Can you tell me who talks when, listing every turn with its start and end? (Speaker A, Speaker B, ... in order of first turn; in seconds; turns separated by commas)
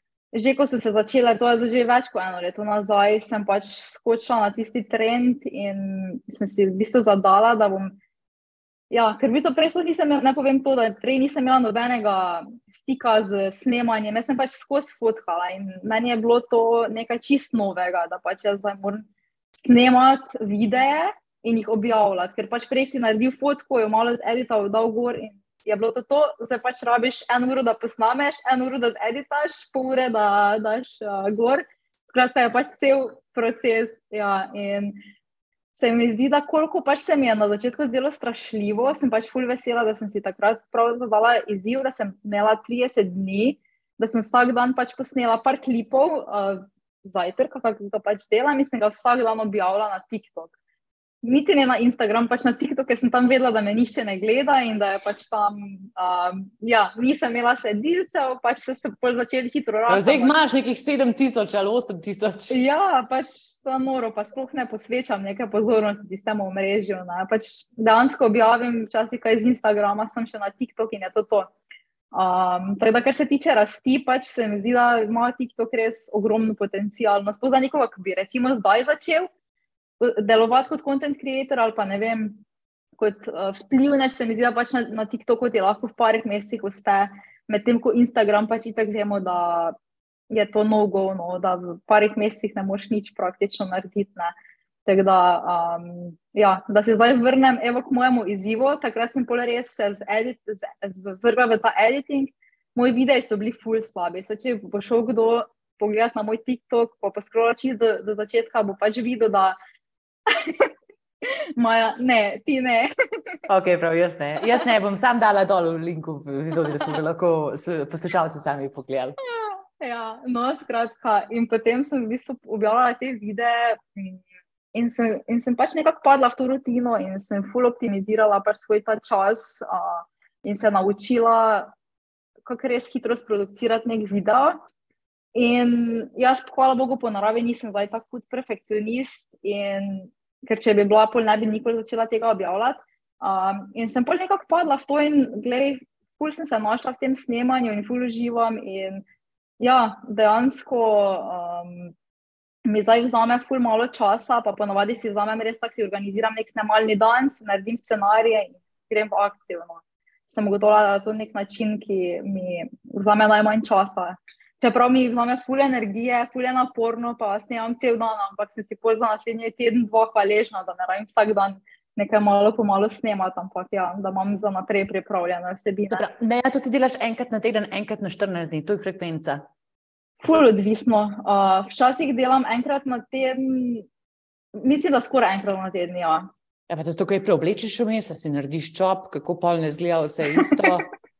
Speaker A: 0.3-8.0, Speaker A: 8.9-35.0, Speaker A: 35.7-50.5, Speaker A: 51.2-60.3, Speaker B: 59.9-62.6, Speaker A: 62.5-71.5, Speaker A: 72.1-79.3, Speaker A: 80.0-82.4, Speaker A: 83.0-89.8, Speaker A: 90.3-94.3, Speaker A: 94.9-109.6, Speaker A: 110.3-110.7, Speaker A: 111.6-112.9, Speaker B: 113.5-119.2, Speaker A: 119.3-124.2, Speaker A: 124.7-131.7, Speaker A: 132.4-134.6, Speaker A: 135.3-149.0, Speaker A: 149.6-151.9, Speaker A: 152.7-176.1, Speaker B: 175.9-179.4, Speaker A: 180.2-183.9, Speaker A: 184.6-186.3, Speaker B: 186.7-190.9, Speaker A: 190.3-190.6